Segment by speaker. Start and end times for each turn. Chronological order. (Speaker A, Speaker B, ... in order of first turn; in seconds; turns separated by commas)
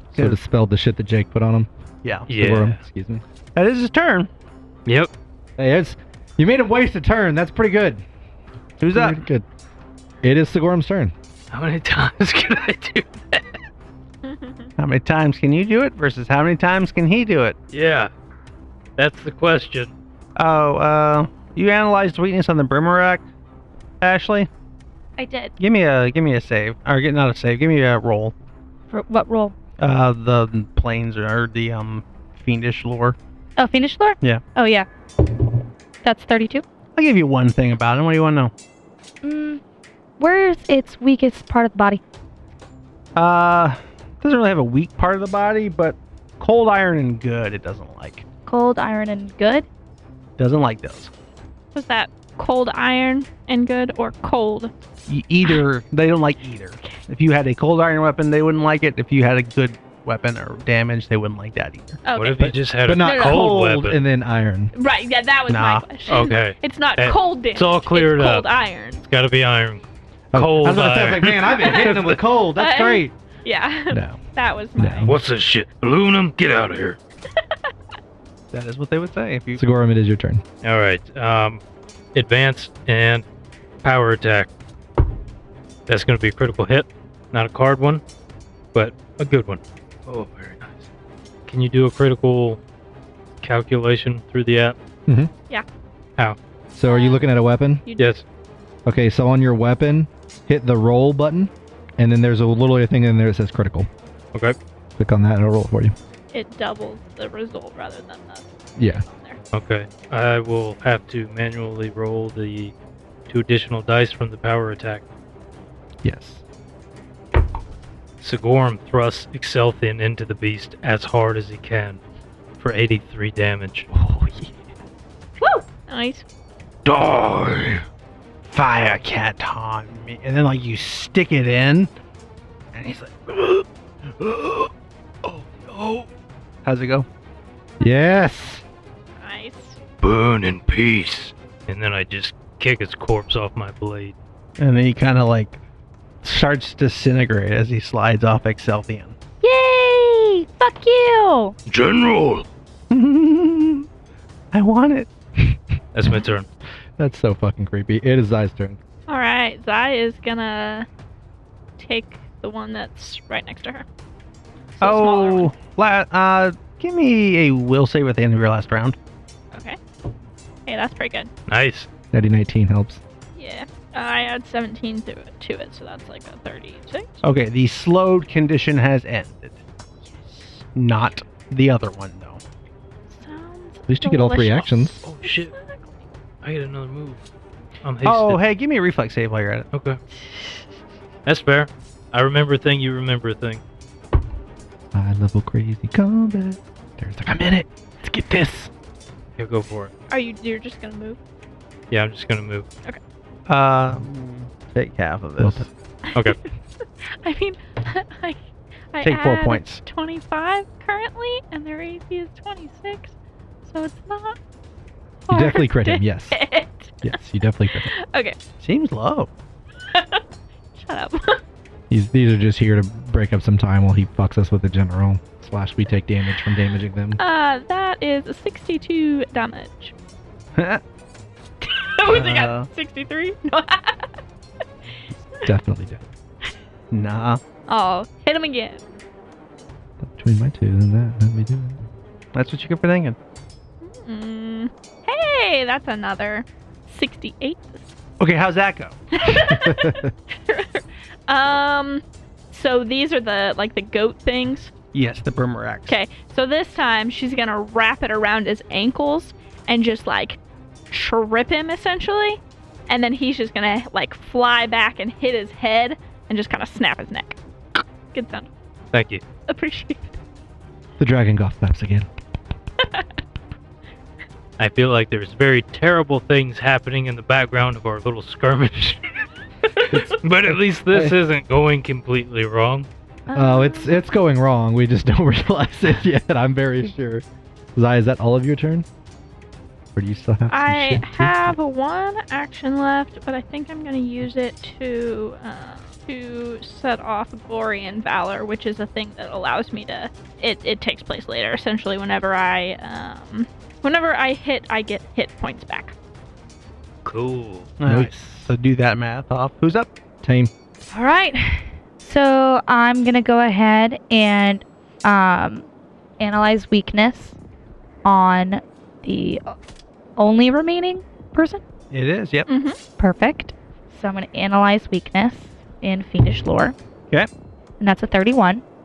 Speaker A: 0.1-1.7, Speaker B: 2.3-2.8, Speaker A: 2.3-3.2, Speaker C: 3.5-4.3, Speaker A: 5.6-8.0, Speaker C: 8.8-9.2, Speaker A: 8.9-9.4, Speaker A: 10.2-11.1, Speaker B: 11.5-13.6, Speaker D: 14.2-14.7, Speaker C: 14.8-17.6, Speaker B: 17.7-18.1, Speaker B: 19.0-19.9, Speaker C: 20.4-23.3, Speaker C: 24.0-24.5, Speaker E: 25.2-25.5, Speaker C: 25.6-28.3, Speaker E: 28.9-29.6, Speaker C: 29.8-33.2, Speaker E: 33.6-34.9, Speaker E: 36.0-36.6, Speaker C: 37.0-38.5, Speaker E: 39.2-39.6, Speaker E: 40.2-42.0, Speaker C: 43.2-48.2, Speaker E: 48.5-49.7, Speaker C: 50.4-51.1, Speaker D: 51.7-54.7, Speaker C: 55.1-62.0, Speaker D: 62.0-63.5, Speaker B: 62.1-64.0, Speaker A: 62.4-64.7, Speaker D: 64.8-69.0, Speaker C: 65.5-65.8, Speaker B: 66.1-72.2, Speaker A: 70.3-73.1, Speaker D: 72.5-75.2, Speaker A: 73.9-74.2, Speaker A: 74.8-75.2, Speaker B: 75.0-77.0, Speaker C: 78.5-79.6, Speaker A: 79.6-80.4, Speaker B: 80.6-81.6, Speaker B: 82.2-83.2, Speaker B: 83.8-84.5, Speaker B: 85.9-88.0, Speaker B: 88.7-90.8, Speaker B: 91.5-92.6, Speaker B: 93.4-94.8, Speaker A: 96.8-97.8, Speaker D: 96.9-97.2, Speaker B: 98.0-98.2, Speaker A: 98.9-103.9, Speaker A: 105.0-106.0, Speaker D: 106.3-109.4, Speaker A: 108.8-109.0, Speaker B: 109.5-112.7, Speaker B: 113.3-115.0, Speaker A: 116.0-116.4, Speaker B: 118.2-122.0, Speaker B: 122.6-123.9, Speaker A: 123.9-124.5, Speaker D: 125.5-126.2, Speaker B: 126.9-127.8, Speaker C: 128.5-131.9, Speaker C: 132.7-133.7, Speaker C: 134.2-134.7, Speaker C: 135.2-136.1, Speaker C: 136.7-137.1, Speaker A: 137.8-138.6, Speaker D: 139.2-139.8, Speaker B: 140.0-144.2, Speaker C: 144.6-145.6, Speaker C: 146.2-149.2, Speaker E: 149.4-151.6, Speaker B: 151.7-152.5, Speaker C: 152.9-153.9, Speaker C: 154.5-155.1, Speaker B: 155.9-156.5, Speaker A: 157.0-158.8, Speaker D: 159.1-160.9, Speaker D: 161.8-163.9, Speaker D: 164.8-165.6, Speaker C: 164.8-169.0, Speaker D: 169.5-169.8, Speaker D: 170.7-171.3, Speaker B: 171.5-171.9, Speaker A: 172.1-173.0, Speaker D: 173.4-177.2, Speaker C: 177.2-179.6, Speaker D: 180.1-180.6, Speaker C: 180.8-182.4, Speaker D: 183.1-185.9, Speaker A: 183.9-185.0, Speaker B: 185.0-185.5, Speaker B: 186.4-187.2, Speaker B: 187.8-188.4, Speaker C: 188.0-189.7, Speaker B: 189.7-190.0, Speaker D: 190.3-190.6, Speaker B: 191.3-193.6, Speaker A: 194.9-198.7, Speaker B: 199.4-199.9, Speaker D: 200.1-201.2, Speaker B: 201.9-202.7, Speaker C: 203.5-205.7, Speaker A: 205.4-205.7, Speaker D: 206.1-206.4, Speaker D: 207.0-208.4, Speaker D: 208.9-214.4, Speaker C: 209.0-209.8, Speaker D: 215.3-217.2, Speaker A: 215.3-216.4, Speaker A: 217.0-217.9, Speaker D: 217.7-218.4, Speaker C: 218.6-219.3, Speaker D: 219.9-220.2, Speaker D: 220.7-221.4, Speaker A: 221.9-227.2, Speaker D: 227.2-229.9, Speaker C: 230.6-230.8, Speaker D: 231.6-234.1, Speaker C: 232.1-232.7, Speaker A: 235.4-236.0, Speaker C: 236.9-237.4, Speaker D: 237.7-238.8, Speaker A: 240.0-241.8, Speaker C: 242.3-243.2, Speaker D: 243.8-247.9, Speaker C: 248.2-249.0, Speaker D: 249.1-254.7, Speaker A: 249.4-250.1, Speaker C: 254.9-256.0, Speaker D: 255.9-260.4, Speaker D: 260.9-267.4, Speaker D: 268.1-268.5, Speaker B: 268.9-269.2, Speaker D: 269.5-270.2, Speaker A: 271.0-272.1, Speaker D: 272.8-273.1, Speaker B: 274.6-279.2, Speaker B: 279.8-282.9, Speaker A: 279.9-281.2, Speaker D: 283.3-284.0, Speaker A: 283.3-288.9, Speaker A: 289.9-291.5, Speaker D: 290.5-305.9, Speaker B: 307.1-307.7, Speaker C: 307.8-309.9, Speaker A: 307.9-308.5, Speaker A: 310.2-310.5, Speaker E: 310.9-315.7, Speaker E: 316.2-317.4, Speaker E: 318.0-319.6, Speaker E: 320.2-321.6, Speaker C: 321.9-322.5, Speaker D: 322.5-322.8, Speaker E: 323.0-326.8, Speaker E: 327.8-328.6